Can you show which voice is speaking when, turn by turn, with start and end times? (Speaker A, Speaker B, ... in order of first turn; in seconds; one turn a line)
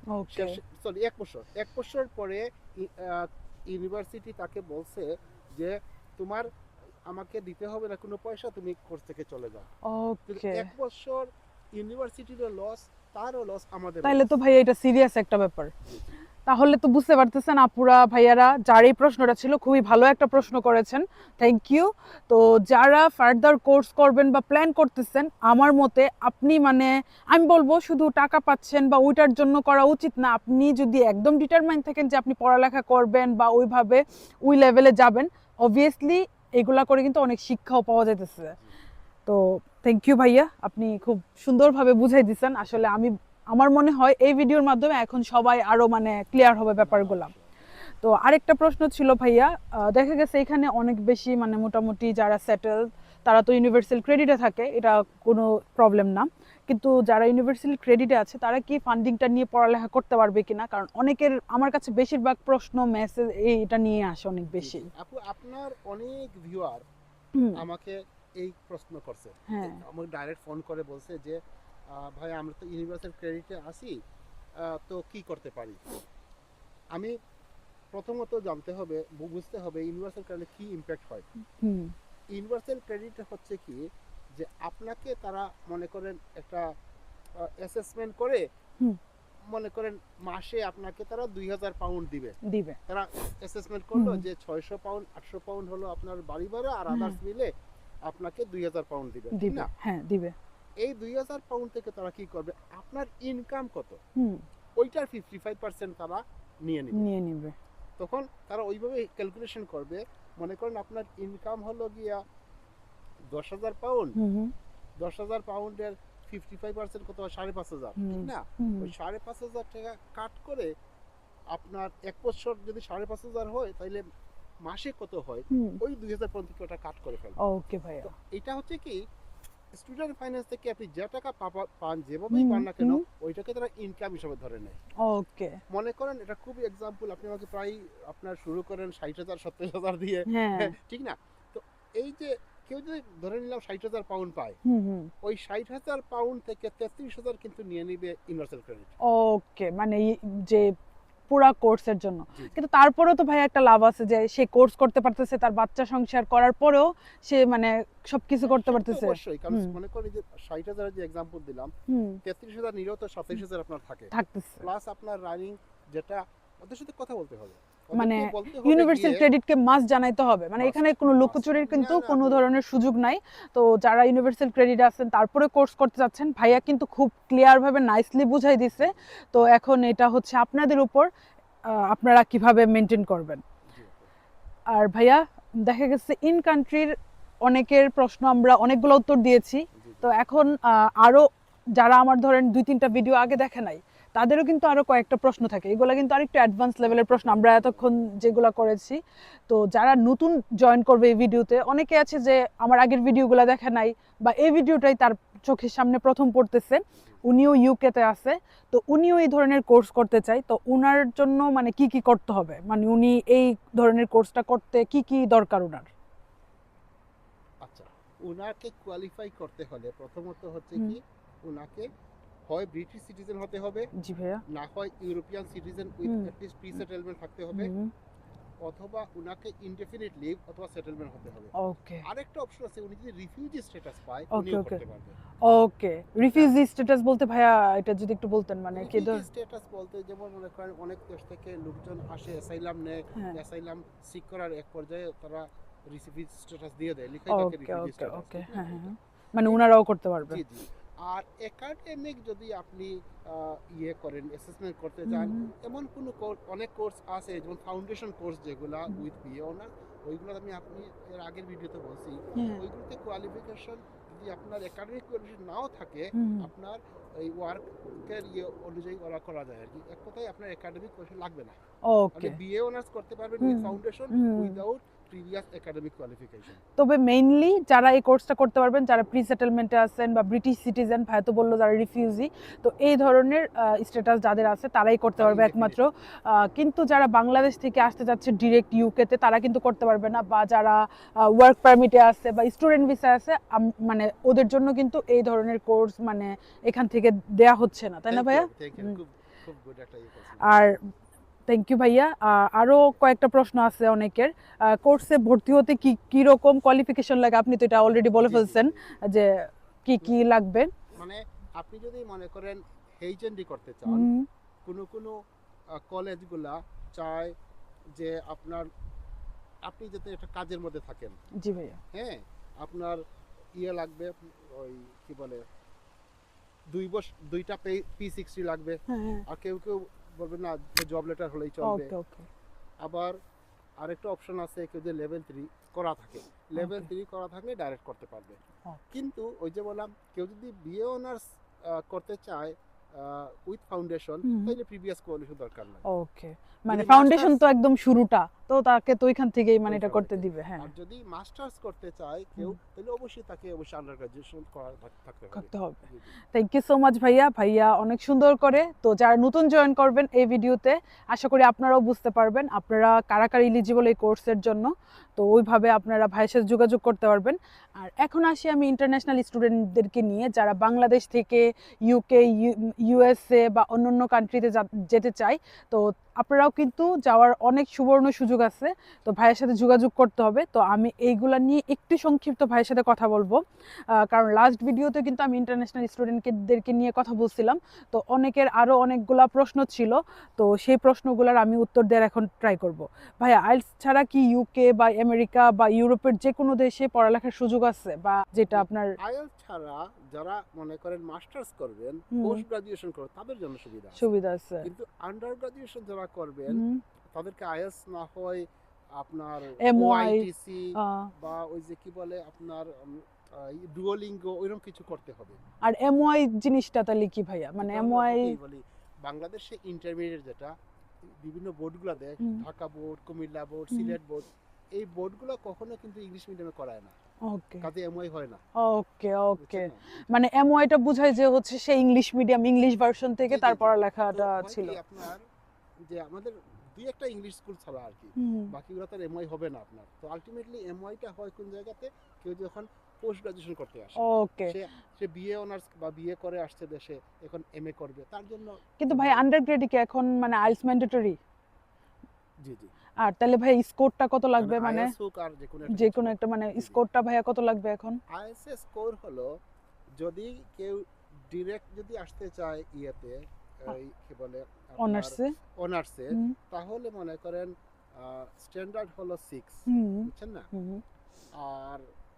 Speaker A: 0.1-0.6
Speaker B: 0.3-6.5
Speaker B: 7.1-9.7
Speaker A: 9.8-10.7
Speaker B: 10.3-14.3
Speaker A: 14.0-15.7
Speaker A: 16.5-38.6
Speaker A: 39.3-47.3
Speaker B: 46.8-47.5
Speaker A: 48.0-64.9
Speaker B: 64.6-66.8
Speaker A: 67.3-67.6
Speaker B: 67.5-71.4
Speaker A: 69.5-69.8
Speaker B: 71.9-74.0
Speaker B: 74.6-75.8
Speaker B: 77.9-81.3
Speaker A: 81.6-81.9
Speaker B: 82.3-83.8
Speaker B: 84.3-86.7
Speaker B: 87.4-88.4
Speaker B: 89.5-97.5
Speaker A: 92.5-92.8
Speaker A: 94.0-94.2
Speaker A: 96.9-97.2
Speaker B: 98.0-99.7
Speaker A: 99.3-100.3
Speaker B: 100.8-104.0
Speaker A: 104.2-104.5
Speaker B: 104.8-107.1
Speaker A: 106.9-107.5
Speaker B: 108.0-112.2
Speaker B: 113.3-114.2
Speaker A: 114.2-114.5
Speaker B: 115.0-120.7
Speaker A: 118.0-118.9
Speaker B: 121.5-124.0
Speaker B: 124.7-127.4
Speaker A: 125.5-125.8
Speaker A: 127.4-128.1
Speaker B: 128.0-129.0
Speaker B: 129.8-134.8
Speaker A: 132.3-133.0
Speaker A: 135.0-135.6
Speaker B: 135.7-144.6
Speaker A: 140.3-140.7
Speaker A: 144.7-145.1
Speaker B: 145.2-148.9
Speaker A: 149.1-150.7
Speaker A: 151.3-159.8
Speaker B: 152.3-152.6
Speaker B: 158.4-161.7
Speaker A: 161.9-162.2
Speaker B: 162.2-169.3
Speaker A: 164.1-164.7
Speaker A: 168.0-181.1
Speaker B: 170.6-172.5
Speaker A: 181.7-183.4
Speaker B: 183.7-184.1
Speaker A: 184.7-186.9
Speaker A: 187.4-215.9
Speaker B: 189.8-190.2
Speaker B: 196.8-198.4
Speaker B: 217.6-221.9
Speaker B: 222.5-223.9
Speaker A: 224.0-224.4
Speaker B: 224.5-227.7
Speaker A: 226.1-226.3
Speaker A: 227.5-227.9
Speaker B: 228.6-231.5
Speaker A: 231.6-232.1
Speaker B: 232.0-235.2
Speaker A: 234.3-234.8
Speaker A: 235.4-239.2
Speaker B: 236.2-236.6
Speaker B: 238.8-249.7
Speaker A: 247.3-250.4
Speaker B: 250.3-271.6
Speaker A: 255.1-255.5
Speaker A: 262.4-262.6
Speaker A: 266.1-266.5
Speaker A: 271.9-272.4
Speaker B: 272.1-276.6
Speaker A: 273.4-274.6
Speaker A: 276.8-299.0
Speaker B: 285.2-286.0
Speaker B: 298.1-300.7
Speaker A: 300.4-300.9
Speaker A: 301.5-310.7
Speaker B: 308.1-309.0
Speaker B: 310.9-314.1
Speaker A: 313.9-314.3
Speaker B: 314.6-315.1
Speaker B: 315.8-317.3
Speaker B: 317.9-318.7
Speaker B: 319.7-321.2
Speaker A: 321.4-321.8
Speaker B: 321.9-323.0
Speaker B: 323.6-325.4
Speaker B: 326.7-331.9
Speaker A: 328.9-329.2
Speaker A: 331.6-332.3
Speaker B: 332.8-333.2
Speaker B: 333.8-338.4
Speaker A: 336.6-336.9
Speaker B: 338.9-345.9
Speaker A: 344.2-344.5
Speaker A: 345.9-350.7
Speaker B: 346.7-347.4
Speaker B: 349.7-356.1
Speaker A: 355.3-355.8
Speaker A: 356.3-398.9
Speaker B: 398.5-404.1
Speaker A: 402.1-402.4
Speaker A: 404.0-404.7
Speaker B: 404.6-408.4
Speaker A: 406.5-406.8
Speaker B: 409.0-415.4
Speaker A: 409.6-411.1
Speaker A: 415.6-418.3
Speaker B: 417.6-420.5
Speaker B: 421.2-426.9
Speaker A: 427.3-427.7
Speaker B: 427.6-428.4
Speaker A: 428.6-434.8
Speaker B: 429.4-430.1
Speaker B: 433.3-435.2
Speaker B: 435.9-449.3
Speaker A: 438.2-438.5
Speaker A: 444.0-444.5
Speaker A: 448.8-451.2
Speaker B: 452.4-452.7
Speaker A: 453.0-454.9
Speaker B: 454.4-456.8
Speaker A: 455.7-458.0
Speaker B: 458.1-459.3
Speaker B: 460.0-470.5
Speaker A: 464.8-465.3
Speaker A: 469.7-470.8
Speaker B: 471.4-471.9